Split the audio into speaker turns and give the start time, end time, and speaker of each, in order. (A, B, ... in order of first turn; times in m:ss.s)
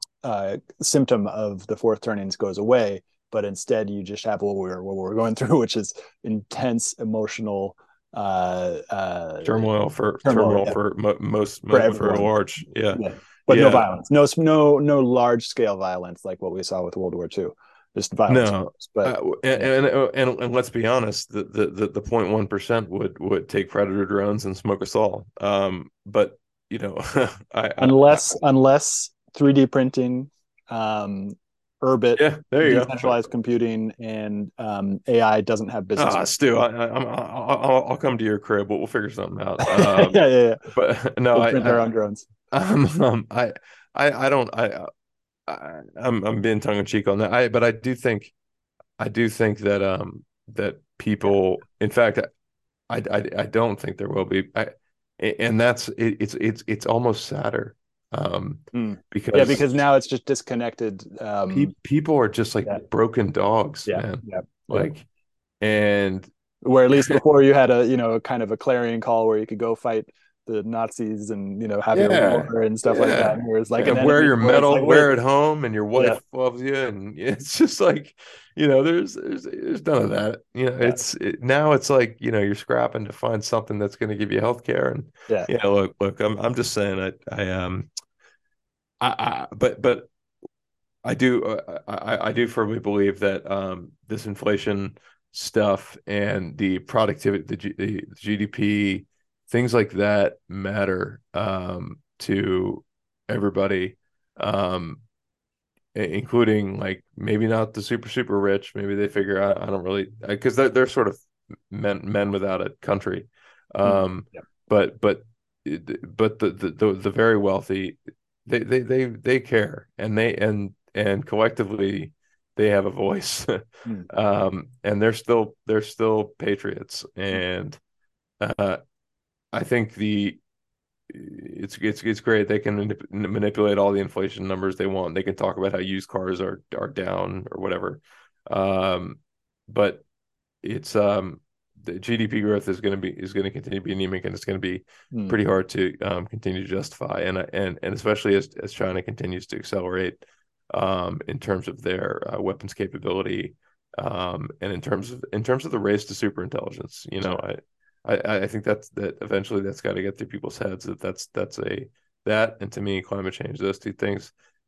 0:00.2-0:09.7 A
0:09.4-0:13.8 B
0:10.2-0:10.8 A
0:11.7-0:12.3 A
0:12.9-0:19.6 A
0:18.3-0:28.2 B
0:27.8-0:36.2 A
0:32.2-0:33.1 B
0:36.0-0:41.9 B
0:39.6-0:40.6 A
0:41.3-0:42.3 A
0:42.5-0:44.9 B
0:45.4-0:48.3 B
0:49.0-0:52.3 B
0:52.9-0:59.8 B
0:58.7-1:01.7 A
1:01.5-1:05.0 B
1:03.8-1:04.9 A
1:05.6-1:06.3 B
1:06.6-1:15.1 A
1:11.9-1:27.9 B
1:29.0-1:30.1 B
1:31.0-1:45.0 B
1:45.9-2:07.8 B
2:08.4-2:08.8 B
2:09.5-2:10.4 B
2:11.1-2:20.0 B
2:20.6-2:44.3 B